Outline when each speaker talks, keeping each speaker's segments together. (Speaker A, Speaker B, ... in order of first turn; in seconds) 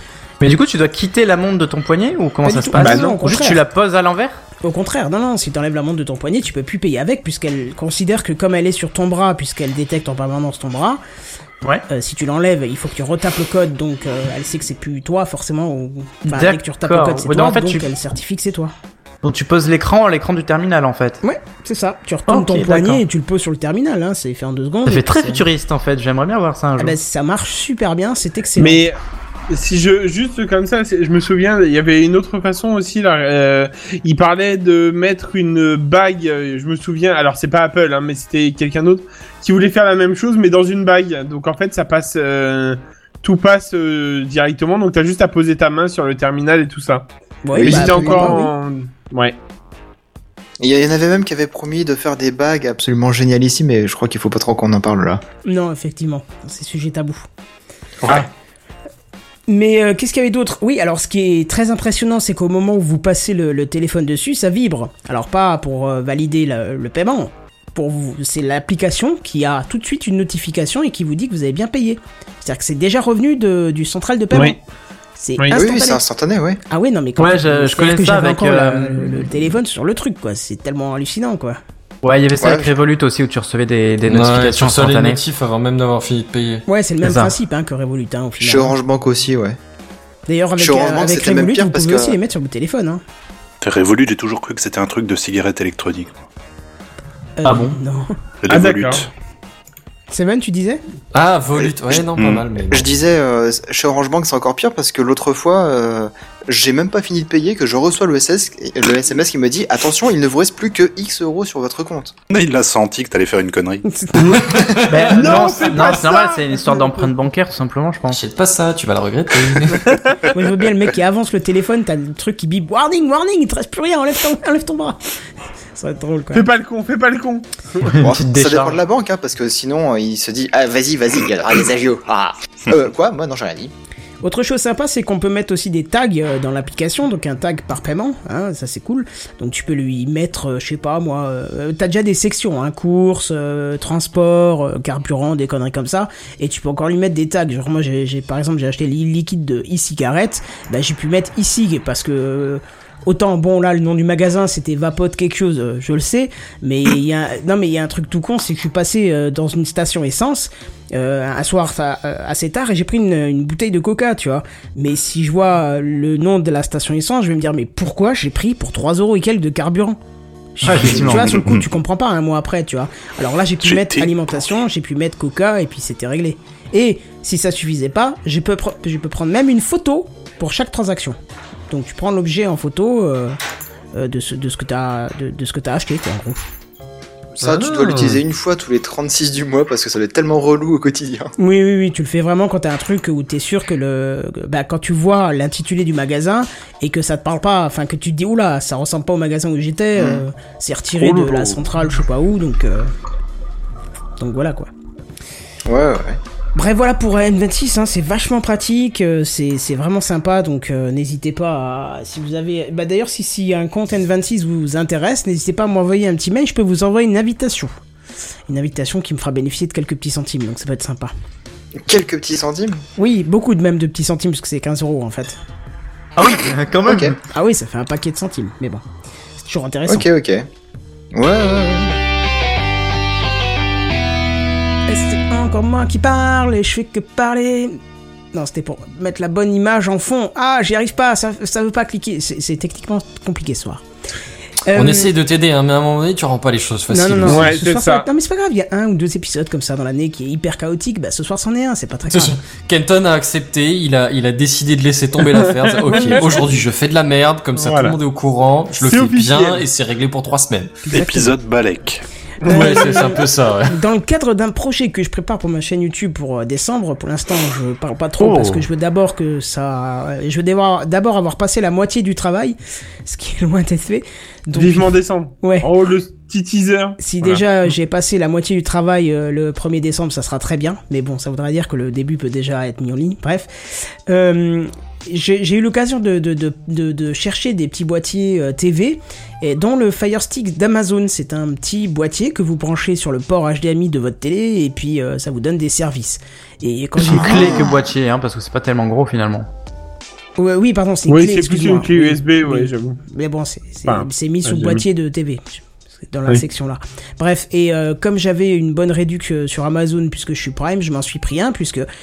Speaker A: 0.4-4.4, 16.3-17.9, 19.2-21.2, 22.3-23.0, 24.9-27.0, 77.2-79.3, 82.0-85.2, 87.0-87.3, 97.4-97.8, 114.9-118.2, 127.8-128.8, 170.6-171.4, 226.2-227.2, 268.2-268.6, 297.0-299.5
Speaker B: 2.4-3.6, 4.6-11.0, 11.9-18.7, 21.2-25.4, 26.8-28.8, 47.5-48.5, 55.5-57.2, 59.5-74.6, 75.2-76.0, 76.7-81.6, 86.7-88.8, 90.3-93.0, 97.4-98.1, 100.1-100.8, 113.9-114.4, 120.3-125.0, 125.8-126.5, 134.2-170.0, 170.6-181.2, 181.7-183.4, 183.9-186.4, 191.4-202.9, 204.2-204.7, 206.6-217.7, 218.5-221.1, 223.0-225.4, 227.3-228.8, 229.4-230.1, 234.9-237.8, 238.3-243.8, 244.7-245.1, 246.9-252.4, 255.9-256.2, 260.9-261.3, 262.4-275.7, 277.0-297.6, 300.4-311.9
Speaker C: 2.8-3.2, 28.6-49.4, 74.3-74.6, 98.5-99.1, 115.0-117.0, 119.9-120.2, 126.3-127.9, 247.3-248.1, 255.3-256.5, 257.6-258.0, 258.8-259.7, 262.5-262.8, 274.5-277.0, 301.1-303.0, 303.9-304.8
Speaker D: 47.6-48.3, 50.6-55.2, 75.5-76.6, 82.4-82.7, 88.4-89.6, 90.6-92.2, 101.6-102.0, 102.7-112.2, 128.0-133.7, 187.4-191.3, 199.9-200.2, 205.7-206.2, 221.8-222.8, 226.9-227.2, 229.9-230.5, 231.1-232.0, 297.2-297.6
Speaker E: 84.1-86.6, 101.1-102.9, 114.5-115.1, 118.1-119.9, 187.4-188.2, 244.7-247.5, 252.1-260.8, 262.5-263.8
Speaker F: 93.6-96.2, 98.4-99.1, 102.2-102.5, 112.3-113.8, 170.7-171.7, 173.6-174.1, 201.0-201.6, 260.9-262.0